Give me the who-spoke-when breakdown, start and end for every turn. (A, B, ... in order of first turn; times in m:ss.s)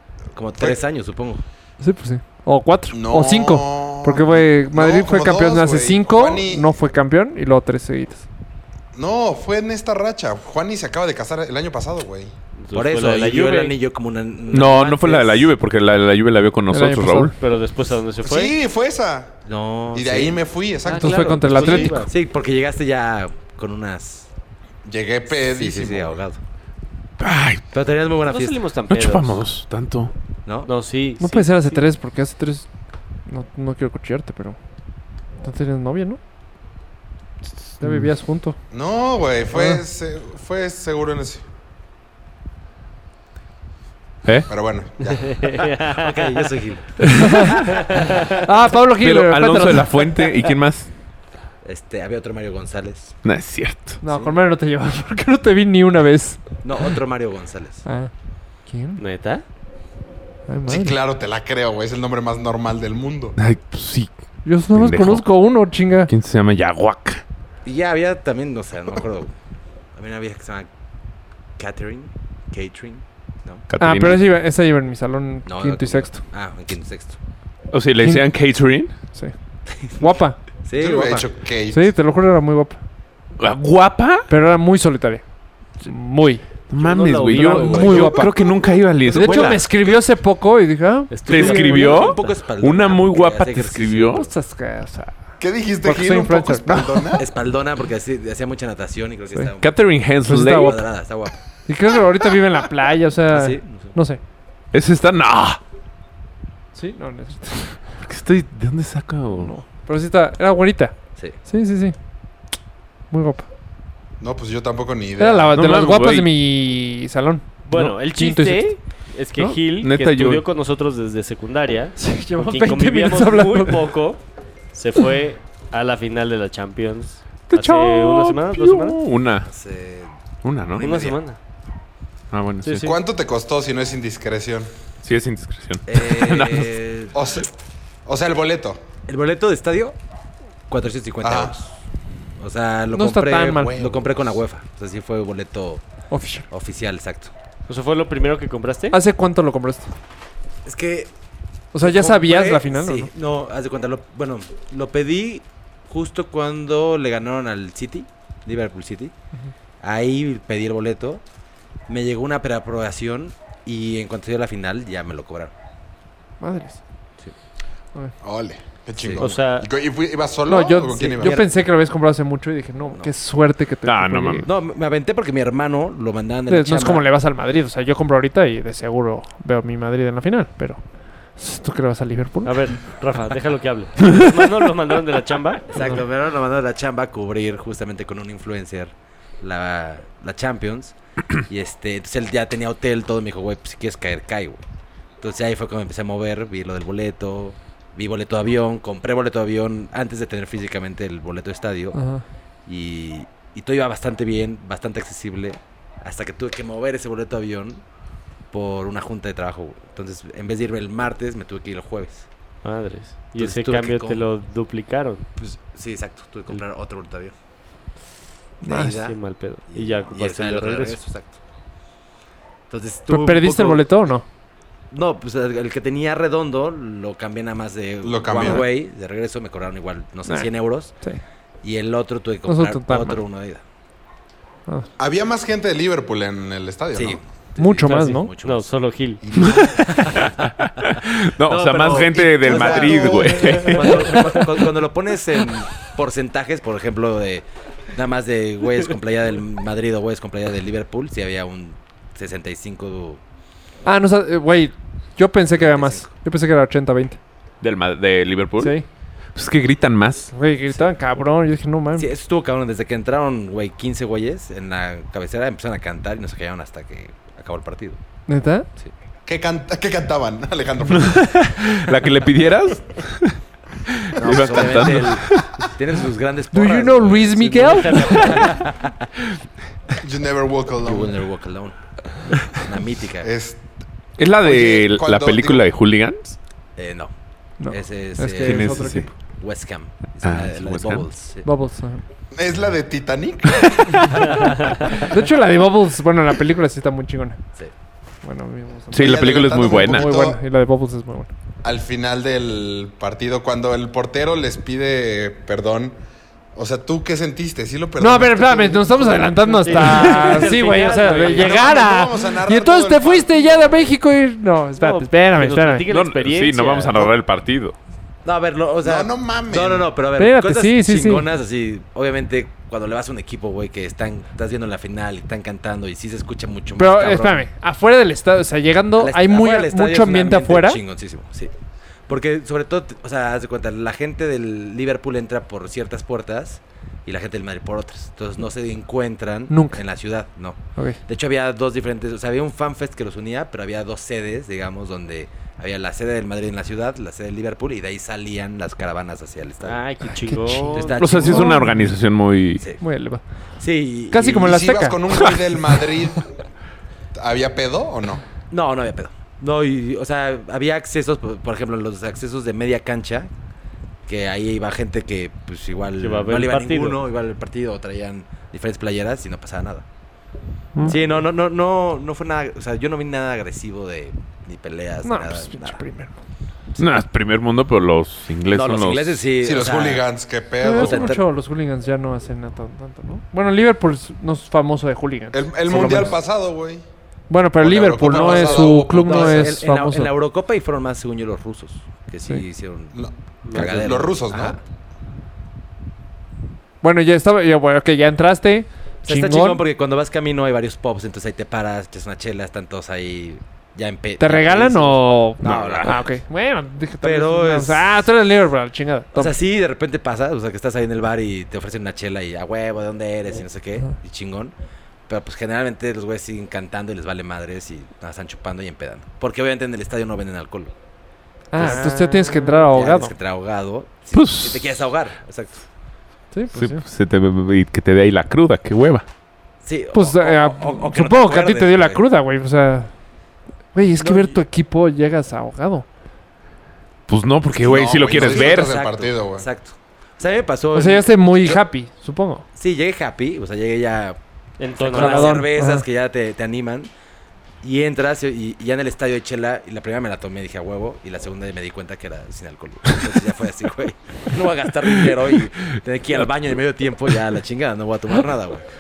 0:00.3-0:01.4 A
0:01.8-0:08.3 B
0:02.9-0:06.8 C
0:09.0-0:12.3 C
0:12.6-0:13.8 D
0:12.7-0:15.5 A
0:14.5-0:17.4 E
0:16.7-0:17.3 B
0:17.4-0:18.6 D
0:18.2-0:19.4 C
0:19.4-0:20.4 A
0:19.9-0:21.9 C
0:20.8-0:22.1 D
0:21.0-0:22.0 B
0:21.5-0:24.3 A
0:24.8-0:26.2 C
0:25.3-0:26.4 A
0:27.2-0:27.6 E
0:27.7-0:28.6 A
0:28.3-0:29.4 D
0:28.9-0:30.1 E
0:30.6-0:31.9 D
0:31.2-0:32.7 B
0:33.3-0:34.6 B
0:35.4-0:36.2 B
0:37.8-0:38.6 B
0:37.8-0:38.1 E
0:38.7-0:41.4 C
0:39.5-0:39.8 B
0:44.5-0:45.3 C
0:45.1-0:46.5 D
0:45.9-0:47.0 A
0:47.0-0:50.5 B
0:47.6-0:48.4 D
0:48.8-0:50.9 E
0:51.6-0:53.2 A
0:53.2-0:54.0 E
0:54.0-0:54.3 A
0:54.0-0:56.4 B
0:56.6-0:57.8 A
0:57.9-0:58.1 B
0:58.7-0:59.0 B
0:59.0-0:59.4 D
1:00.5-1:01.0 B
1:00.7-1:03.4 C
1:03.4-1:04.1 E
1:04.4-1:06.1 B
1:04.7-1:05.3 E
1:06.1-1:07.2 E
1:07.6-1:09.3 A
1:10.0-1:10.7 A
1:11.6-1:13.6 A
1:13.7-1:14.2 E
1:13.8-1:16.2 B
1:15.5-1:17.2 A
1:17.7-1:18.9 E
1:18.0-1:18.3 B
1:20.0-1:20.4 B
1:20.6-1:21.3 A
1:20.8-1:21.9 C
1:21.7-1:22.8 B
1:23.4-1:24.3 E
1:24.3-1:25.2 B
1:25.8-1:26.4 B
1:26.7-1:29.6 E
1:26.8-1:28.3 D
1:27.4-1:32.0 B
1:27.6-1:28.2 A
1:29.2-1:30.0 A
1:31.1-1:31.9 D
1:31.2-1:34.3 A
1:31.2-1:34.3 E
1:34.3-1:35.2 B
1:35.4-1:37.2 C
1:35.8-1:37.2 B
1:37.2-1:39.8 A
1:39.6-1:40.8 E
1:40.2-1:40.8 B
1:40.5-1:41.4 A
1:41.7-1:44.2 B
1:43.3-1:43.9 A
1:44.7-1:45.6 E
1:46.7-1:47.8 B
1:48.0-1:49.6 E
1:49.3-1:52.0 B
1:53.1-1:53.5 B
1:54.2-1:55.7 C
1:55.2-1:58.7 B
1:55.5-1:56.3 E
1:57.6-2:04.2 D
1:59.4-2:00.4 E
2:02.0-2:03.8 B
2:04.7-2:09.0 D
2:07.5-2:09.5 E
2:09.4-2:10.1 A
2:10.4-2:11.0 E
2:10.7-2:11.2 A
2:10.8-2:11.4 D
2:12.3-2:12.9 E
2:12.6-2:12.9 D
2:12.8-2:14.7 C
2:15.0-2:16.8 E
2:15.9-2:17.2 A
2:17.1-2:17.5 C
2:18.1-2:18.8 C
2:19.1-2:20.0 A
2:20.7-2:21.8 A
2:21.2-2:21.5 C
2:22.4-2:25.8 A
2:22.9-2:23.8 B
2:23.6-2:24.2 C
2:26.1-2:26.5 B
2:26.5-2:27.3 A
2:27.7-2:29.0 D
2:28.9-2:29.9 B
2:30.6-2:31.1 A
2:31.7-2:33.1 B
2:31.8-2:39.1 A
2:39.8-2:41.2 A
2:41.9-2:45.5 A
2:46.4-2:46.8 B
2:48.2-2:51.4 C
2:49.0-2:49.3 A
2:49.2-2:49.7 D
2:50.5-2:54.5 B
2:50.9-2:51.7 A
2:53.8-2:54.5 E
2:54.4-2:57.0 A
2:56.5-3:00.8 B
3:01.4-3:02.7 B
3:02.4-3:05.6 D
3:05.7-3:14.6 A
3:15.2-3:22.0 A
3:22.0-3:22.2 B
3:22.7-3:27.8 A
3:28.5-3:32.3 A
3:32.6-3:35.2 D
3:33.4-3:34.2 A
3:35.4-3:37.3 A
3:38.6-3:39.0 B
3:38.7-3:39.2 A
3:38.9-3:41.0 D
3:39.7-3:41.4 A
3:42.7-3:44.2 A
3:43.1-3:44.2 B
3:44.9-3:51.0 A
3:48.0-3:48.6 C
3:51.6-3:53.6 A
3:52.5-3:53.2 B
3:55.0-3:57.2 C
3:56.9-3:58.7 A
3:57.6-3:58.3 B
3:57.9-3:59.2 D
3:59.2-3:59.8 C
3:59.4-4:00.9 A
4:00.2-4:04.2 E
4:01.4-4:13.2 A
4:02.6-4:03.1 B
4:03.8-4:04.3 D
4:04.0-4:04.5 B
4:13.8-4:17.2 B
4:15.5-4:16.1 A
4:17.6-4:18.8 E
4:18.6-4:18.8 B
4:19.3-4:20.3 E
4:20.3-4:22.1 B
4:21.9-4:28.0 A
4:28.3-4:28.7 B
4:29.3-4:31.3 C
4:30.9-4:35.7 E
4:34.2-4:39.1 A
4:36.5-4:38.6 B
4:37.6-4:38.6 D
4:40.0-4:41.2 C
4:40.8-4:41.8 A
4:42.5-4:43.3 A
4:43.2-4:43.7 C
4:44.2-4:46.4 E
4:44.4-4:45.7 C
4:46.8-4:47.1 A
4:47.6-4:49.1 B
4:47.7-4:51.5 A
4:48.4-4:49.1 E
4:50.2-4:51.1 E
4:51.4-4:52.0 B
4:52.3-4:54.2 C
4:54.2-4:57.4 B
4:58.2-5:01.3 B
4:58.9-5:00.2 E
4:59.0-5:00.4 C
5:01.6-5:06.0 C
5:06.6-5:09.8 C
5:08.0-5:15.8 B
5:09.6-5:11.7 D
5:10.0-5:10.6 A
5:11.3-5:13.9 C
5:14.8-5:17.1 D
5:15.9-5:17.8 E
5:18.2-5:27.4 A
5:18.8-5:19.9 C
5:20.2-5:21.3 B
5:26.8-5:30.8 B
5:29.0-5:31.5 A
5:32.1-5:49.8 A
5:39.5-5:39.8 B
5:49.6-5:51.1 D
5:50.3-5:51.9 B
5:50.7-5:51.6 A
5:50.9-5:52.6 E
5:52.6-5:52.8 A
5:52.8-5:53.2 B
5:53.6-5:54.6 A
5:54.1-5:55.1 B
5:54.3-5:56.4 C
5:57.2-5:58.2 C
5:58.5-6:03.3 A
6:04.1-6:09.8 A
6:06.0-6:07.0 D
6:10.8-6:11.0 B
6:10.8-6:15.8 A
6:15.0-6:16.1 B
6:16.8-6:19.2 E
6:18.5-6:20.1 A
6:19.4-6:21.2 C
6:20.6-6:26.1 B
6:20.7-6:21.2 A
6:25.3-6:26.8 C
6:25.7-6:26.2 A
6:27.3-6:30.1 B
6:27.6-6:29.6 C
6:28.1-6:33.0 A
6:32.9-6:34.6 C
6:33.5-6:34.6 A
6:36.8-6:39.6 B
6:39.0-6:46.2 A
6:44.2-6:49.4 B
6:47.0-6:48.0 A
6:49.1-6:54.5 A
6:55.1-7:00.7 A
7:01.5-7:03.1 B
7:01.6-7:02.7 D
7:01.6-7:05.6 A
7:04.1-7:04.7 E
7:06.3-7:06.8 B
7:06.5-7:09.0 E
7:09.6-7:12.1 A
7:09.9-7:12.9 B
7:13.7-7:15.9 B
7:14.0-7:14.4 A
7:17.1-7:18.7 E
7:17.5-7:19.4 C
7:18.1-7:21.6 A
7:20.8-7:22.4 B
7:22.5-7:24.2 A
7:24.6-7:25.5 D
7:24.8-7:26.9 A
7:24.9-7:25.8 B
7:27.6-7:38.7 A